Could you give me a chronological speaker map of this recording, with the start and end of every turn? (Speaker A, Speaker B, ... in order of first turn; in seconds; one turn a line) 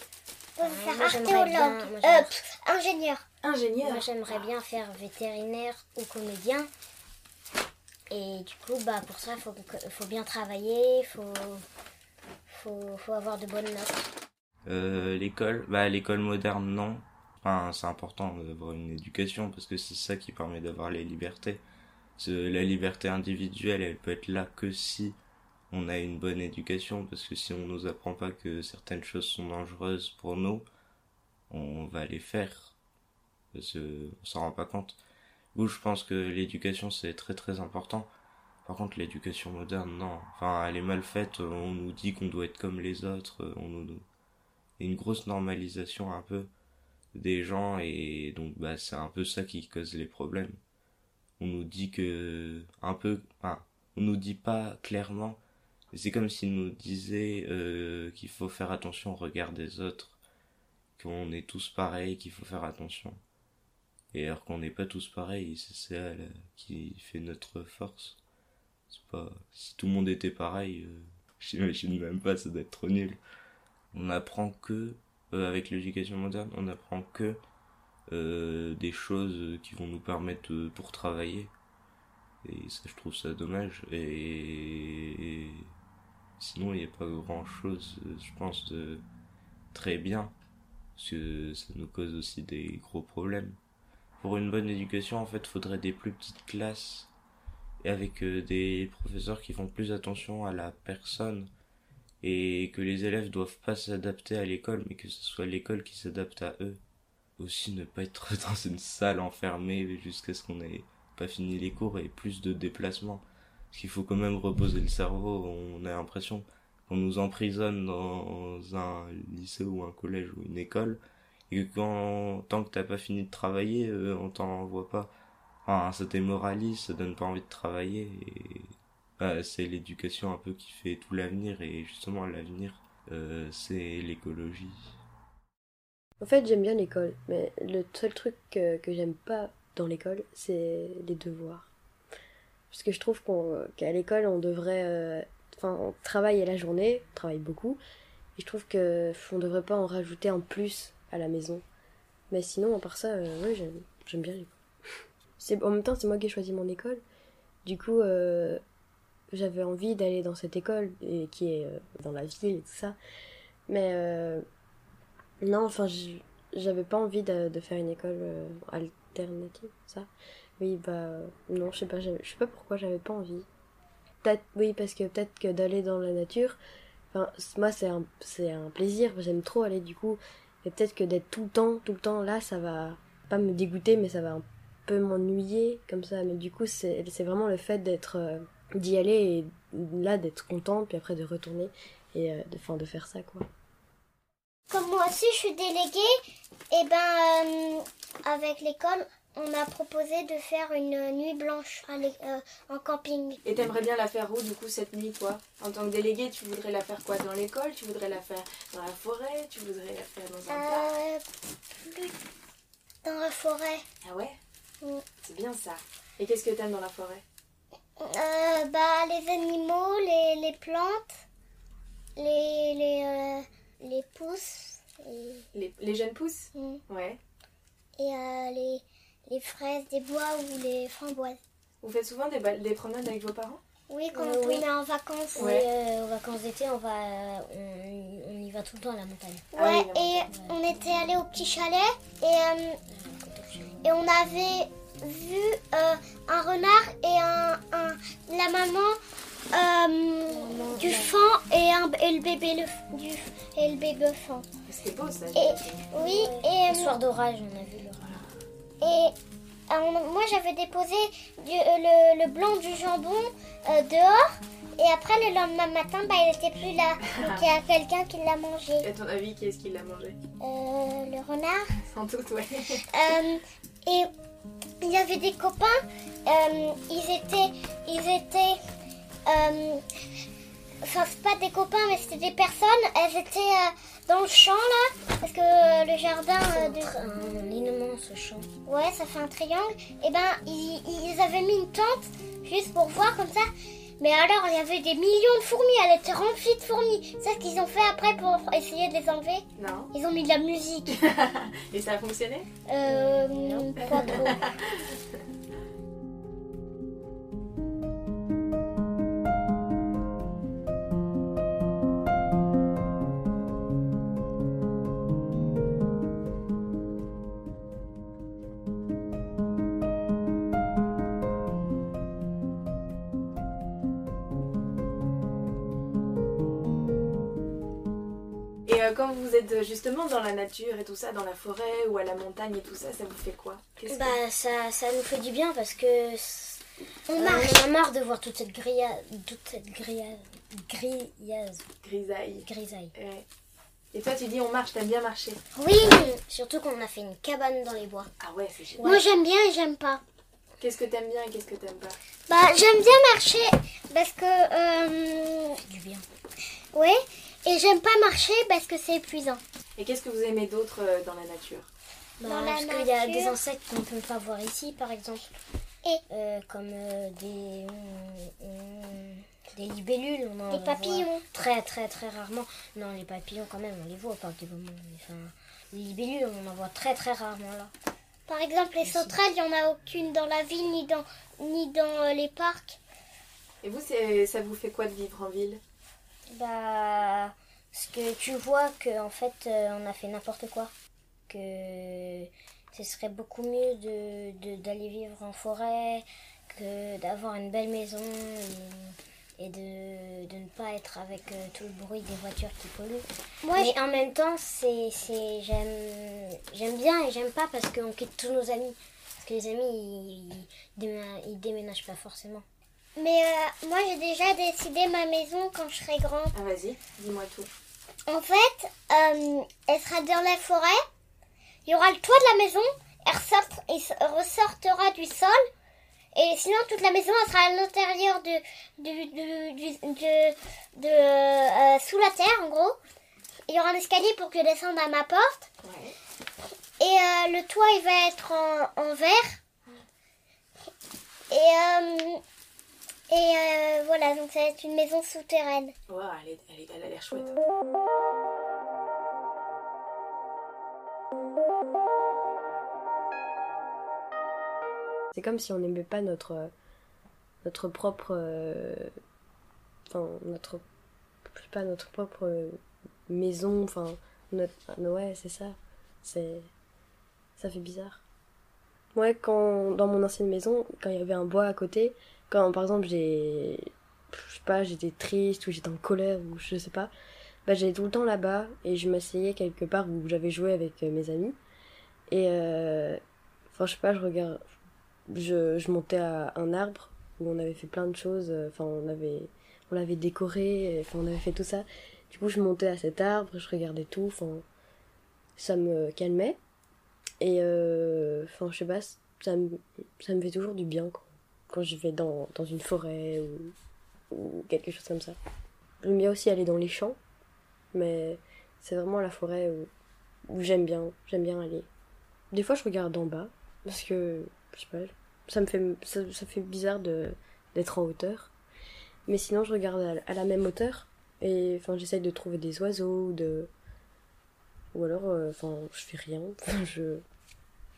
Speaker A: 0.6-3.2
Speaker B: 0.6-2.4
Speaker C: 3.4-4.4
Speaker B: 3.8-6.7
Speaker B: 8.1-11.6
Speaker B: 12.5-14.1
Speaker D: 14.7-21.6
Speaker D: 22.2-25.2
Speaker D: 25.7-30.6
Speaker D: 31.5-32.8
Speaker D: 33.5-35.0
Speaker D: 35.5-38.1
Speaker D: 38.6-44.0
Speaker D: 44.8-46.5
Speaker D: 47.1-50.6
Speaker D: 51.4-55.4
Speaker D: 55.9-60.2
Speaker D: 61.0-63.2
Speaker D: 64.1-68.2
Speaker D: 68.9-73.2
Speaker D: 73.9-77.4
Speaker D: 78.1-81.5
Speaker D: 82.4-85.7
Speaker D: 86.4-89.0
Speaker D: 89.7-90.3
Speaker D: 91.0-93.6
Speaker D: 94.2-97.1
Speaker D: 97.8-101.5
Speaker D: 102.2-106.8
Speaker D: 107.4-125.1
Speaker D: 125.6-135.0
Speaker E: 136.2-141.7
Speaker E: 142.7-147.8
Speaker E: 148.4-151.6
Speaker E: 152.3-154.6
Speaker E: 155.4-157.0
Speaker E: 157.6-158.6
Speaker E: 159.3-163.0
Speaker E: 163.7-164.4
Speaker E: 165.4-173.5
Speaker E: 174.2-176.6
Speaker E: 177.1-193.5
Speaker A: 194.7-196.1
Speaker A: 196.7-203.4
Speaker C: 203.4-210.9
Speaker A: 210.5-211.2
Speaker A: 211.8-212.2
Speaker A: 213.0-213.8
Speaker C: 214.0-214.4
Speaker C: 215.2-217.2
Speaker A: 218.0-221.2
Speaker A: 222.2-225.5
Speaker C: 225.5-227.2
Speaker A: 226.5-226.8
Speaker A: 228.0-231.4
Speaker C: 231.8-233.6
Speaker A: 233.9-235.6
Speaker B: 234.1-234.6
Speaker B: 235.4-239.5
Speaker C: 235.4-235.6
Speaker C: 239.6-240.2
Speaker A: 239.6-242.8
Speaker B: 240.3-240.6
Speaker B: 242.9-243.9
Speaker A: 243.8-249.0
Speaker A: 249.5-254.5
Speaker B: 250.3-251.1
Speaker C: 254.7-255.9
Speaker A: 255.3-256.9
Speaker B: 256.0-258.2
Speaker A: 258.8-259.1
Speaker A: 259.7-268.9
Speaker C: 267.1-267.4
Speaker C: 268.8-270.2
Speaker A: 270.4-271.7
Speaker C: 271.9-272.8
Speaker A: 272.9-274.1
Speaker A: 274.8-278.6
Speaker A: 279.3-279.8
Speaker A: 280.8-286.9
Speaker B: 286.5-288.5
Speaker A: 288.6-293.5
Speaker A: 294.0-301.0
Speaker C: 299.6-299.9
Speaker C: 300.9-302.5
Speaker A: 302.6-304.6
Speaker B: 302.9-304.1
Speaker C: 303.8-304.6
Speaker C: 328.6-334.1
Speaker B: 333.9-336.6
Speaker A: 337.1-337.6
Speaker B: 337.1-341.7
Speaker C: 341.8-343.2
Speaker B: 342.4-342.9
Speaker C: 343.9-345.4
Speaker A: 345.6-346.1
Speaker B: 346.0-348.1
Speaker C: 348.2-349.0
Speaker A: 348.8-350.0
Speaker C: 350.6-352.0
Speaker A: 352.3-355.6
Speaker B: 355.6-356.1
Speaker A: 356.7-359.4
Speaker C: 359.8-361.7
Speaker B: 362.2-365.3
Speaker A: 362.2-363.3
Speaker B: 366.1-377.7
Speaker A: 370.5-371.2
Speaker A: 378.3-382.8
Speaker B: 378.8-379.2
Speaker C: 383.6-385.6
Speaker B: 386.3-390.7
Speaker B: 391.3-412.4
Speaker A: 403.4-403.8
Speaker A: 413.0-416.4
Speaker C: 416.3-417.5
Speaker A: 418.1-420.8
Speaker A: 421.6-425.4
Speaker A: 426.1-432.8
Speaker A: 433.5-435.5
Speaker C: 435.6-435.9
Speaker A: 436.8-439.4
Speaker A: 441.3-442.2
Speaker A: 443.1-445.7
Speaker C: 445.9-447.4
Speaker E: 455.1-456.5
Speaker E: 457.4-458.9
Speaker E: 459.9-460.6
Speaker E: 461.3-466.5
Speaker E: 467.4-468.0
Speaker E: 468.9-476.9
Speaker E: 477.4-481.4
Speaker E: 482.1-483.0
Speaker E: 483.5-484.4
Speaker E: 485.1-494.4
Speaker E: 495.4-496.4
Speaker E: 497.2-503.6
Speaker E: 504.1-505.1
Speaker E: 505.8-507.0
Speaker E: 507.7-509.7
Speaker E: 510.3-511.7
Speaker E: 512.3-518.3
Speaker E: 519.1-523.5
Speaker E: 524.7-527.0